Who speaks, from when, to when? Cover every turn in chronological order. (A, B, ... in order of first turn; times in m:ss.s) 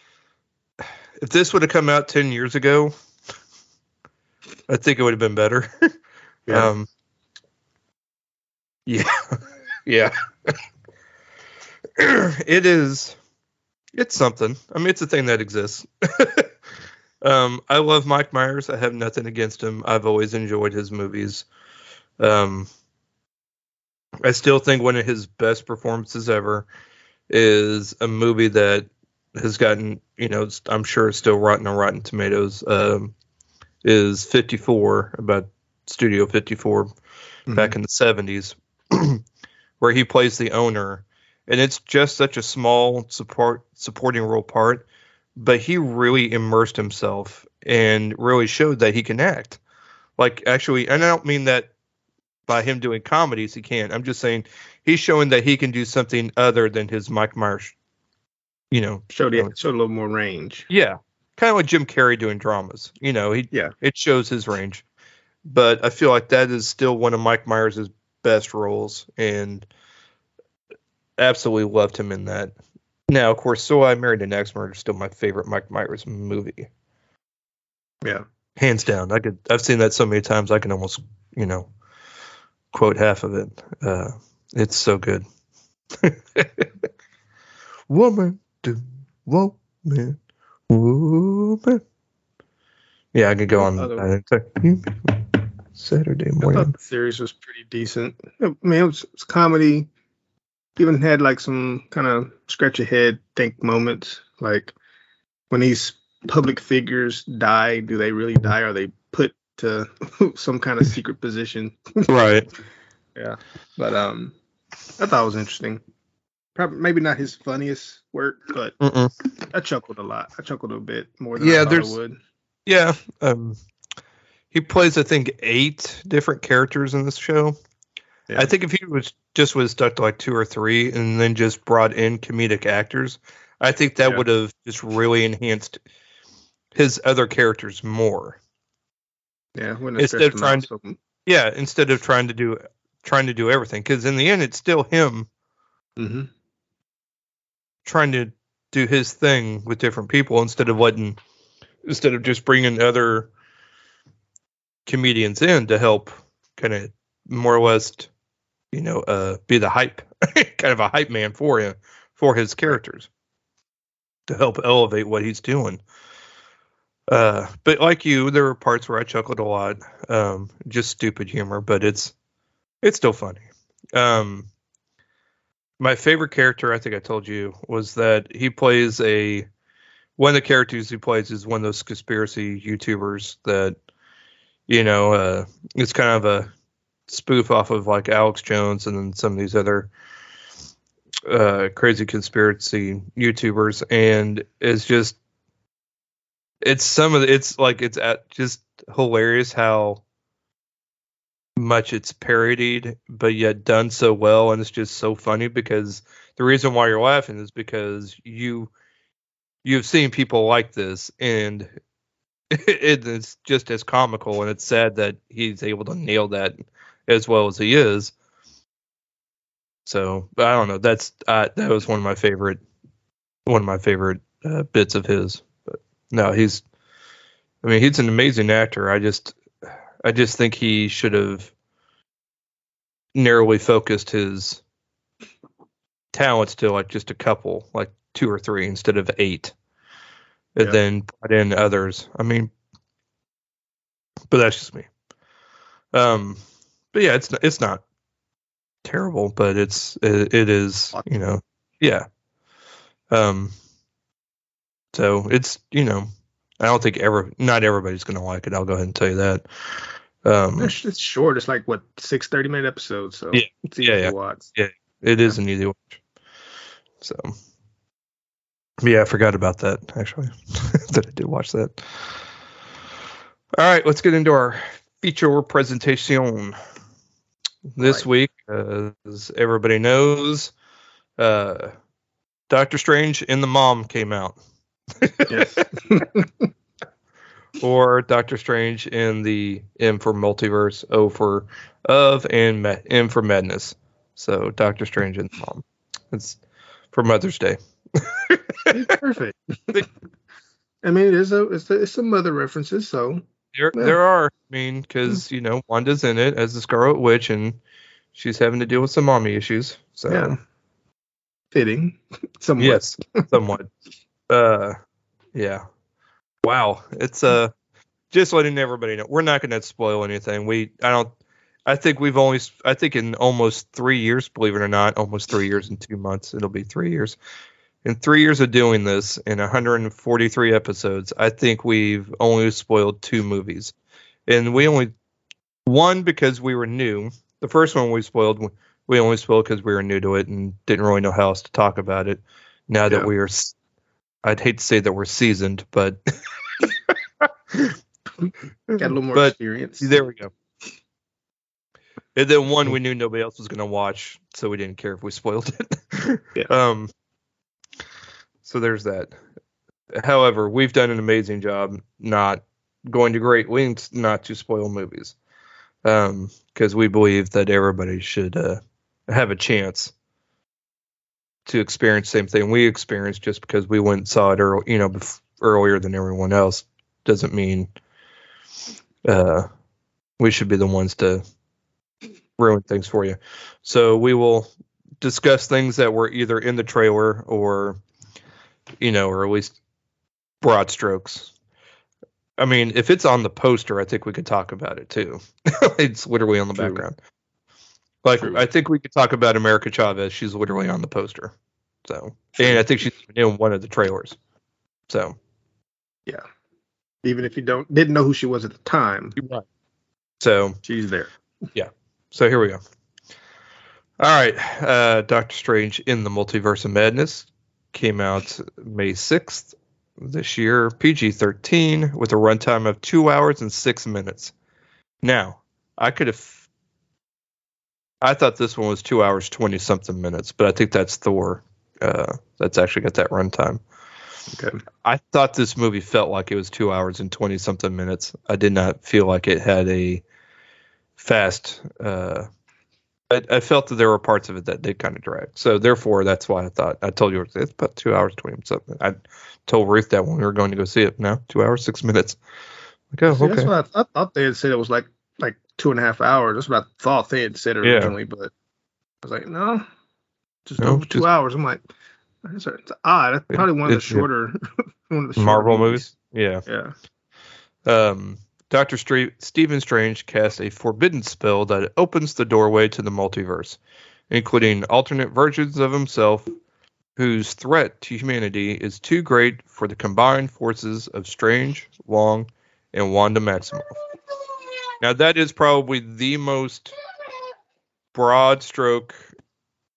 0:01.2-0:02.9 A
0:04.7-0:05.9 A
0:06.5-0:06.9 A
0:08.8-0:10.6 A
0:12.0-0:13.2 A
0:13.9-0:16.5 A
0:17.2-0:21.4 A
0:22.2-0:22.7 A
0:24.2-0:26.6 A
0:27.3-0:33.1 A
0:33.8-0:36.9 A
0:37.5-0:37.7 B
0:37.5-0:39.2 A
0:39.8-0:44.8 A
0:45.4-0:49.6 A
0:50.2-0:51.7 A
0:52.5-0:57.7 A
0:58.7-0:59.5 A
0:59.1-1:00.7 B
1:00.7-1:04.8 A
1:05.4-1:09.7 A
1:11.2-1:12.5 A
1:13.1-1:16.7 A
1:18.6-1:21.7 A
1:22.7-1:25.2 A
1:25.9-1:26.7 A
1:27.9-1:30.2 A
1:30.7-1:31.8 A
1:33.1-1:36.7 A
1:33.6-1:34.1 B
1:36.4-1:39.9 B
1:40.8-1:44.7 B
1:45.5-1:52.0 B
1:52.0-1:52.5 A
1:53.2-1:54.3 B
1:55.0-1:55.8 B
1:56.5-1:58.8 B
1:58.8-1:59.1 A
1:59.5-2:02.2 B
2:01.4-2:02.0 A
2:02.6-2:03.6 A
2:04.5-2:07.6 A
2:08.4-2:15.8 A
2:16.7-2:18.4 A
2:19.6-2:21.0 B
2:20.0-2:20.7 A
2:21.2-2:25.3 A
2:26.0-2:26.3 B
2:27.8-2:31.2 A
2:31.8-2:33.3 A
2:34.8-2:38.1 A
2:38.7-2:43.1 A
2:44.3-2:45.8 A
2:47.1-2:52.1 A
2:52.8-2:54.5 A
2:55.8-2:59.5 A
3:00.2-3:03.7 A
3:04.7-3:06.5 A
3:07.1-3:09.9 A
3:11.3-3:15.2 A
3:16.6-3:20.0 A
3:21.6-3:28.7 A
3:29.6-3:31.7 A
3:32.5-3:38.1 A
3:39.8-3:42.6 A
3:43.4-3:46.6 A
3:47.6-3:49.4 A
3:50.0-3:51.5 A
3:53.1-3:54.6 A
3:56.1-3:59.5 A
4:00.5-4:02.5 A
4:04.3-4:04.9 A
4:05.9-4:06.4 A
4:06.9-4:07.8 A
4:08.8-4:12.0 A
4:13.1-4:13.5 A
4:14.9-4:19.4 A
4:20.2-4:20.7 A
4:20.6-4:24.5 B
4:23.3-4:26.0 A
4:27.0-4:27.3 A
4:28.8-4:32.1 A
4:33.6-4:36.6 A
4:37.7-4:40.5 A
4:37.8-4:38.0 B
4:41.2-4:41.7 A
4:42.5-4:44.4 A
4:45.0-4:45.7 A
4:45.3-4:46.5 B
4:47.6-4:56.4 A
4:56.9-4:58.9 A
4:58.7-4:59.8 B
5:00.8-5:03.2 B
5:03.5-5:07.6 A
5:08.1-5:10.3 A
5:10.1-5:10.4 B
5:11.5-5:13.2 B
5:12.6-5:13.7 A
5:14.3-5:14.8 A
5:15.3-5:15.6 A
5:16.4-5:17.5 A
5:18.1-5:21.1 A
5:21.6-5:27.2 A
5:27.8-5:33.7 A
5:34.3-5:34.9 A
5:35.6-5:43.5 A
5:44.2-5:46.0 A
5:46.6-5:46.9 A
5:48.7-5:50.3 A
5:48.8-5:49.9 B
5:52.1-5:56.9 A
5:58.4-5:59.1 A
5:59.9-6:05.1 A
6:05.8-6:09.9 A
6:11.4-6:17.7 A
6:19.0-6:19.5 A
6:20.2-6:21.2 A
6:22.4-6:27.8 A
6:28.8-6:29.5 A
6:30.4-6:31.3 A
6:32.4-6:37.0 A
6:36.5-6:36.8 B
6:38.0-6:41.3 A
6:41.9-6:44.2 A
6:42.4-6:42.6 B
6:44.9-6:45.2 A
6:47.0-6:49.2 B
6:49.2-6:49.4 A
6:50.2-6:50.6 A
6:50.6-6:51.1 B
6:51.5-6:52.6 A
6:54.0-7:04.3 A
7:05.0-7:06.4 A
7:08.0-7:13.6 A
7:14.3-7:14.6 B
7:14.8-7:20.0 A
7:21.0-7:22.3 A
7:23.1-7:32.2 A
7:32.9-7:33.5 A
7:33.1-7:38.3 B
7:37.6-7:37.9 A
7:39.0-7:39.6 B
7:40.4-7:41.6 B
7:40.6-7:41.1 A
7:42.2-7:45.9 B
7:43.3-7:44.0 A
7:45.2-7:46.4 A
7:46.4-7:46.7 B
7:47.6-7:53.6 A
7:54.1-7:56.3 A
7:57.0-8:03.8 A
8:04.8-8:06.7 A
8:07.9-8:09.0 A